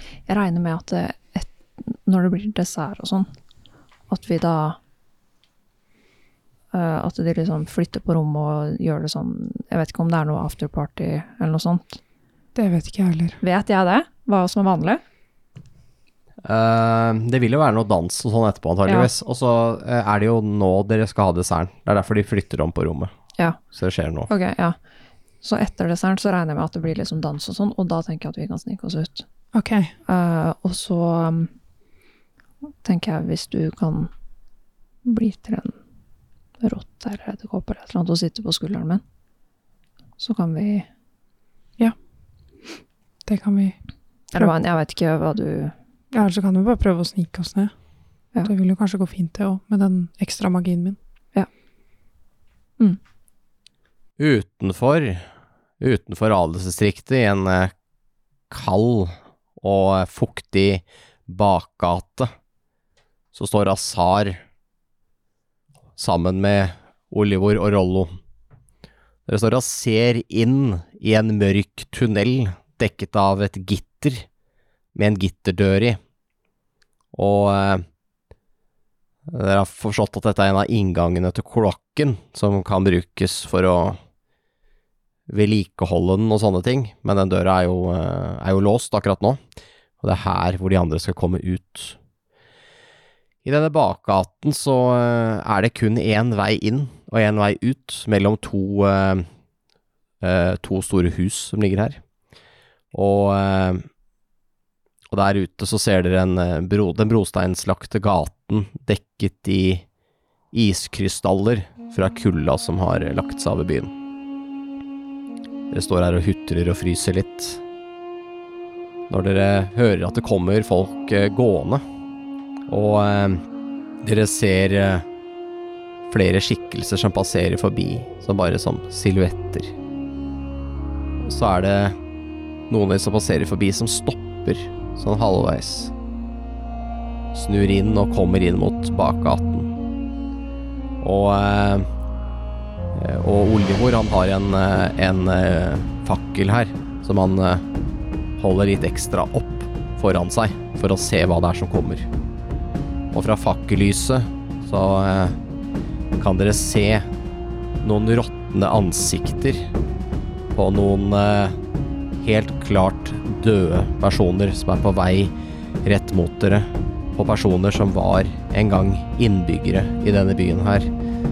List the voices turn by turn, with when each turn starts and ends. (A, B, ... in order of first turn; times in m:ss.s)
0:00.3-0:03.3 A
0:04.1-0:04.8 A
0:06.7-0:12.0 A
0:12.5-0:13.4 B
0:13.4-0:15.0 A
0:16.4-0:23.1 C
0:18.8-0:19.1 A
0:23.7-0:24.3 C
0:24.3-0:24.8 A
0:25.4-0:29.2 A
0:29.5-0:29.9 B
0:30.0-0:31.5 A
0:32.8-0:34.1 A
0:35.0-0:35.8 A
0:36.6-0:39.0 A
0:40.2-0:40.9 A
0:43.2-0:43.8 B
0:44.3-0:45.7 A
0:46.1-0:47.7 B
0:48.4-0:51.0 B
0:54.2-0:55.2 C
0:55.8-0:57.7 C
0:58.5-1:02.3 C
1:03.3-1:04.4 C
1:06.0-1:08.1 C
1:09.3-1:14.2 C
1:14.9-1:16.0 C
1:17.1-1:17.8 C
1:19.3-1:24.0 C
1:25.3-1:29.4 C
1:30.0-1:32.0 C
1:33.4-1:39.2 C
1:40.2-1:42.0 C
1:42.9-1:43.8 C
1:45.1-1:49.8 C
1:50.5-1:53.9 C
1:55.7-1:57.6 C
1:59.1-2:01.8 C
2:02.7-2:03.4 C
2:04.0-2:05.0 C
2:06.1-2:09.7 C
2:11.2-2:12.0 C
2:12.7-2:15.9 C
2:17.3-2:19.7 C
2:21.0-2:21.9 C
2:22.9-2:27.6 C
2:28.4-2:32.1 C
2:33.1-2:35.4 C
2:36.2-2:37.1 C
2:37.8-2:39.6 C
2:40.5-2:41.6 C
2:42.2-2:50.9 C